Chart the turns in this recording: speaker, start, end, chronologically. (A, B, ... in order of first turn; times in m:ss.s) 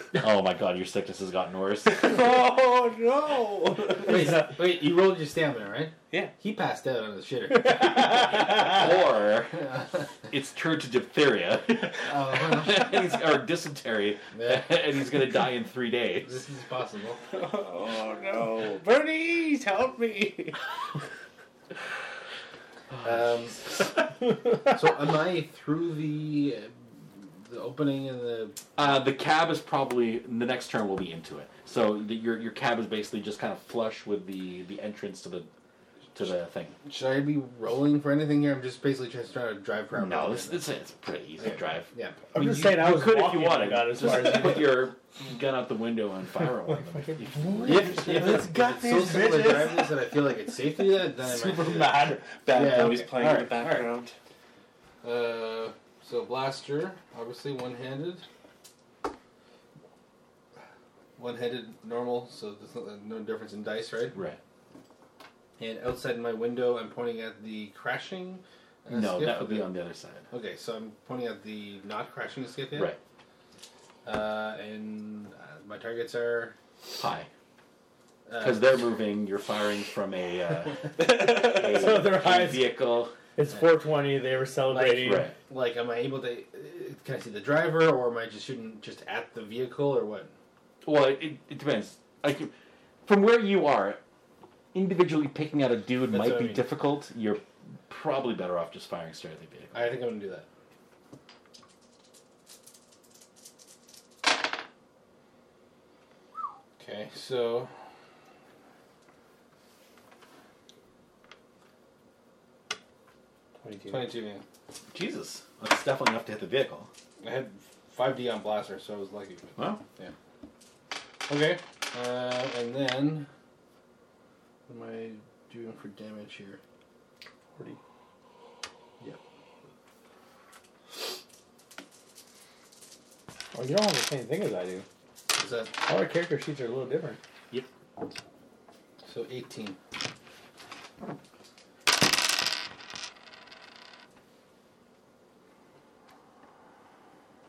0:00.2-0:02.1 A
0:01.9-0:04.4 B
0:04.0-0:08.9 C
0:07.6-0:08.6 D
0:08.4-0:09.7 A
0:09.5-0:10.1 C
0:10.3-0:16.3 A
0:12.0-0:13.1 C
0:14.3-0:14.8 C
0:16.2-0:17.2 C
0:17.3-0:20.6 B
0:22.9-0:23.3 A
0:23.0-0:23.7 C
0:24.6-0:28.6 C
0:28.8-0:35.5 A
0:36.1-0:36.8 A
0:36.8-0:40.6 C
0:39.9-0:48.4 A
0:41.4-0:42.3 C
0:42.3-0:44.9 D
0:46.7-0:50.0 D
0:47.6-0:53.2 C
0:51.0-0:52.3 D
0:52.4-0:54.1 B
0:53.1-0:53.9 D
0:55.0-0:58.2 C
1:01.2-1:04.2 C
1:04.1-1:04.4 A
1:05.6-1:09.7 C
1:08.9-1:10.3 A
1:10.3-1:12.9 C
1:12.7-1:13.0 A
1:14.0-1:16.6 C
1:17.0-1:17.3 A
1:18.3-1:18.8 C
1:18.4-1:23.2 A
1:21.2-1:22.8 D
1:23.3-1:25.3 D
1:24.7-1:30.3 C
1:25.0-1:25.4 A
1:30.8-1:32.5 A
1:33.0-1:34.0 A
1:34.7-1:39.8 A
1:36.1-1:36.6 C
1:39.7-1:40.5 C
1:46.8-1:47.7 C
1:53.6-1:54.1 D
1:53.9-1:54.4 C
1:54.9-1:56.9 A
1:57.2-2:00.1 C
1:59.6-1:59.8 A
2:01.3-2:03.3 C
2:04.7-2:06.6 C
2:13.5-2:14.9 D
2:15.4-2:15.8 C
2:15.9-2:17.2 D
2:19.0-2:19.8 C